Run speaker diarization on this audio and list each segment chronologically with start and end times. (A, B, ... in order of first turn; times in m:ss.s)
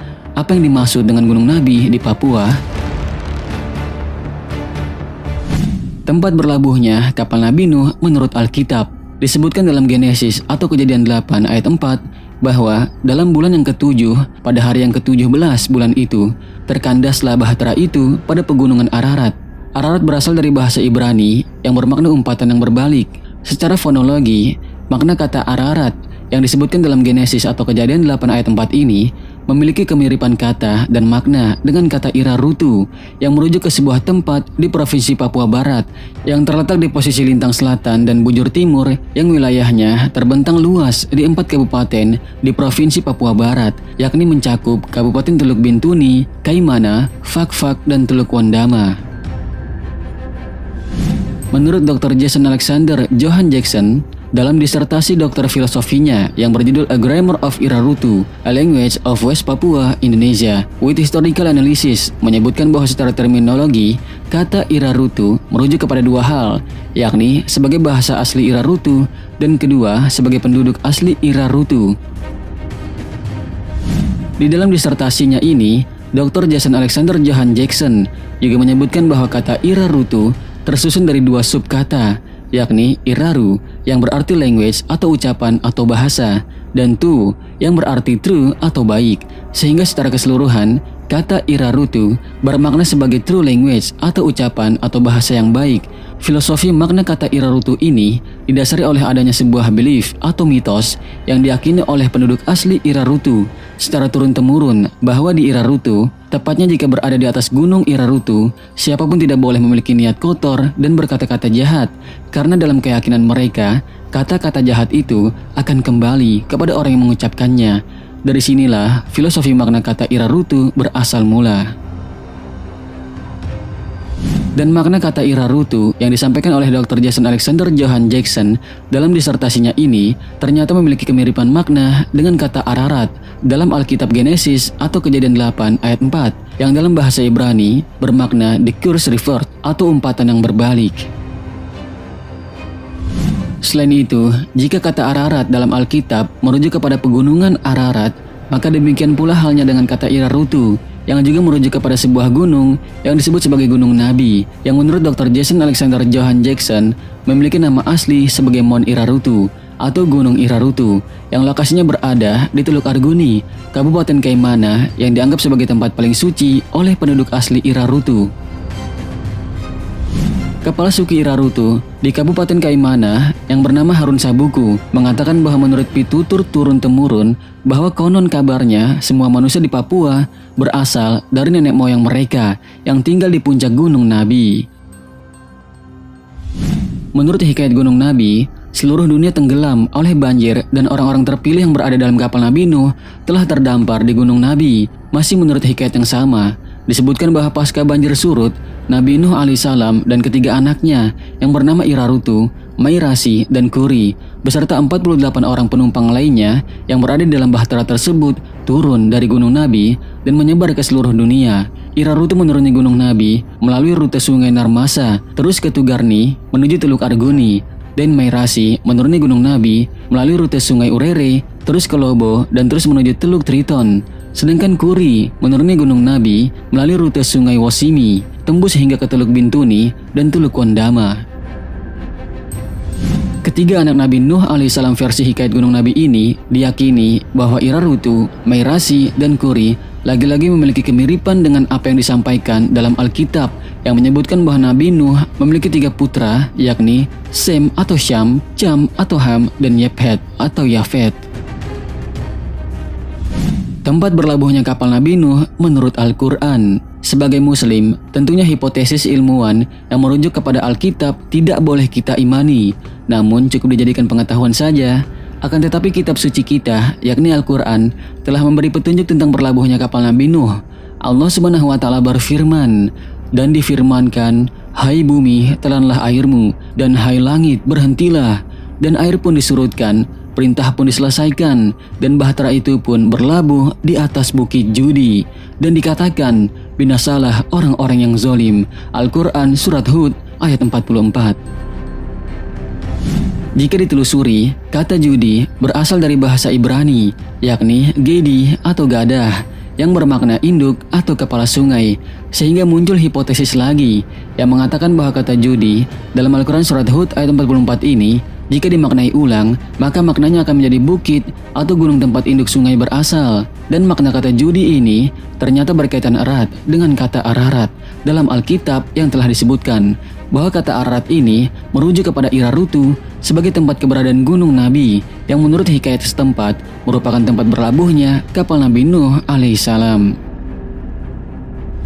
0:00.4-0:02.6 A
0:06.0-0:49.0 A
0:51.5-1:12.0 A
1:14.4-2:01.7 A
2:04.6-2:21.1 A
2:23.6-2:48.3 A
2:50.6-3:04.6 A
3:07.1-3:51.2 A
3:53.4-4:11.2 A
4:13.8-4:51.4 A
4:53.6-5:30.1 A